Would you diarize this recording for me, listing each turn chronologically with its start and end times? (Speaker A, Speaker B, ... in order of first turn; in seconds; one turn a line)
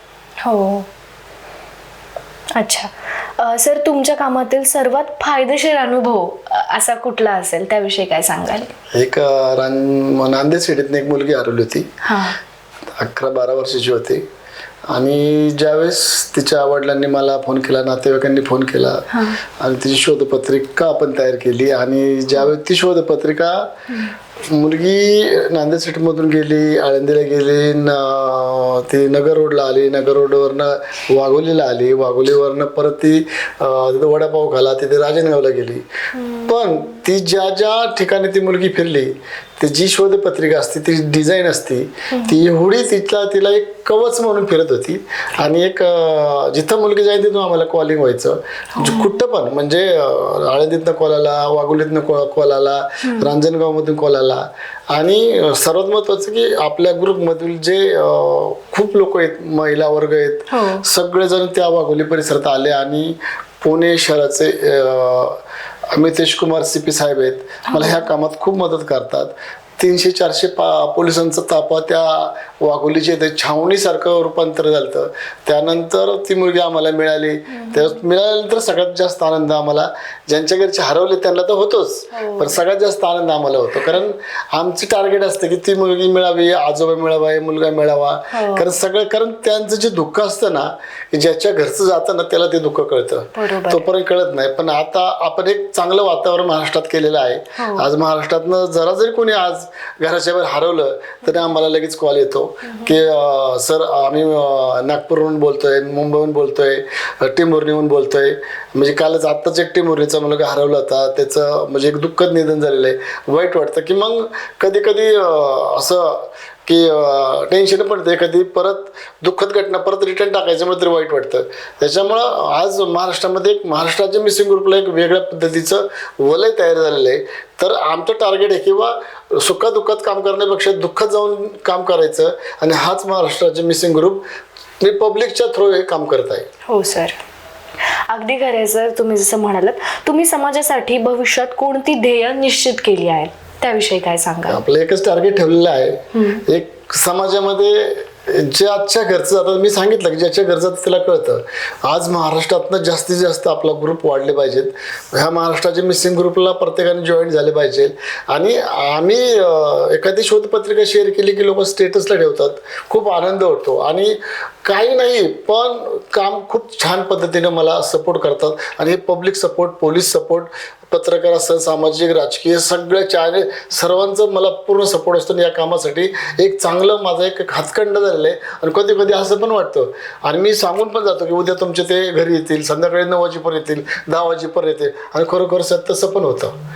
Speaker A: 0.4-0.9
Speaker A: 2.5-8.7
Speaker B: 8.9-11.9
Speaker A: 12.0-12.4
Speaker B: 12.9-14.2
Speaker B: 14.9-19.1
Speaker A: 19.1-19.4
Speaker B: 19.6-23.7
Speaker B: 24.5-35.8
Speaker B: 36.4-65.4
Speaker A: 48.8-49.1
Speaker A: 53.0-53.3
Speaker A: 60.5-60.8
Speaker B: 65.9-134.2
Speaker A: 67.7-68.0
Speaker A: 77.5-77.8
Speaker A: 82.1-82.5
Speaker A: 88.3-88.7
Speaker A: 93.3-93.8
Speaker A: 97.6-97.9
Speaker B: 134.8-136.5
Speaker A: 136.7-137.2
Speaker A: 138.1-144.6
Speaker B: 144.5-186.5
Speaker A: 146.1-146.4